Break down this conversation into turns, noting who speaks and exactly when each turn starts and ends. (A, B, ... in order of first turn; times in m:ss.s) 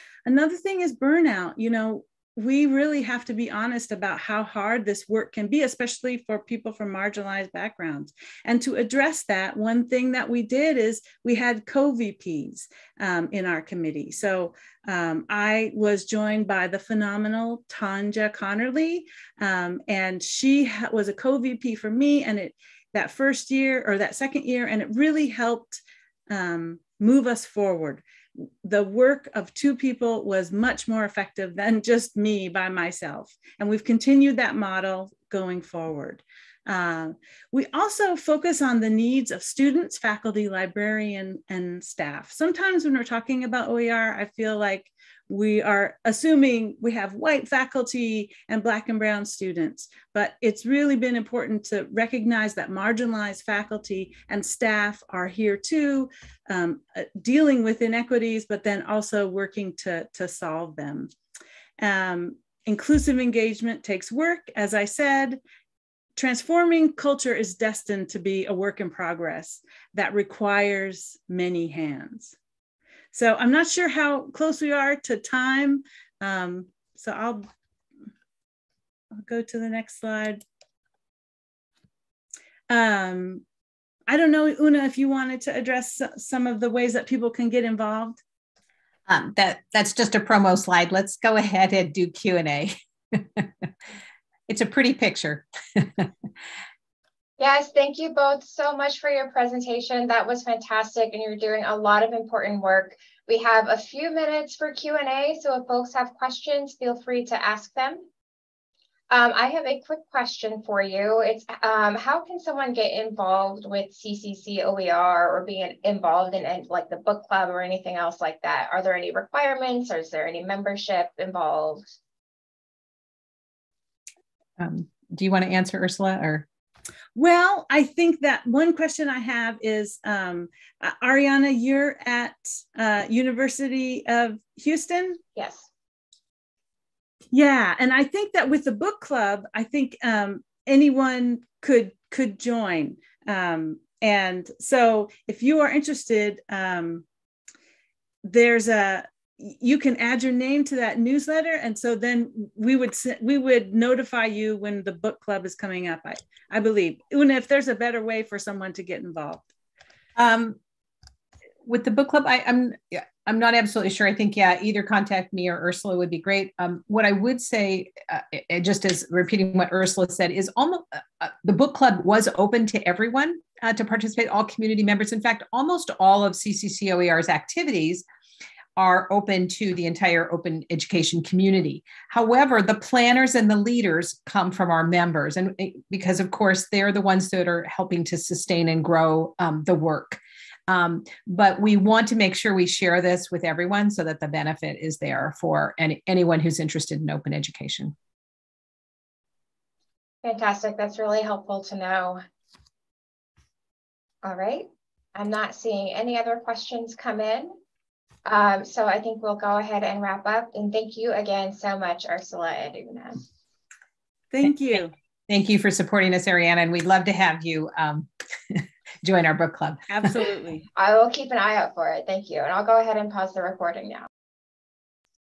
0:00.2-1:01.1 A
1:01.8-1:05.4 A
1:06.2-1:12.4 A
1:13.1-1:17.5 A
1:19.2-1:20.4 A
1:22.7-1:23.4 A
1:24.1-1:28.2 A
1:29.1-1:33.5 B
1:34.5-1:36.1 B
1:37.4-1:48.0 C
1:49.1-2:01.9 C
2:04.6-2:06.4 B
2:07.1-2:15.2 A
2:15.4-2:15.7 C
2:17.3-2:27.0 A
2:28.2-2:39.5 A
2:40.2-2:40.6 B
2:41.6-2:58.0 B
2:58.8-3:17.9 B
3:20.2-3:22.2 C
3:24.2-3:27.5 C
3:28.2-3:33.2 C
3:34.3-3:34.9 A
3:35.3-3:40.1 B
3:39.9-3:40.6 A
3:40.8-3:44.1 C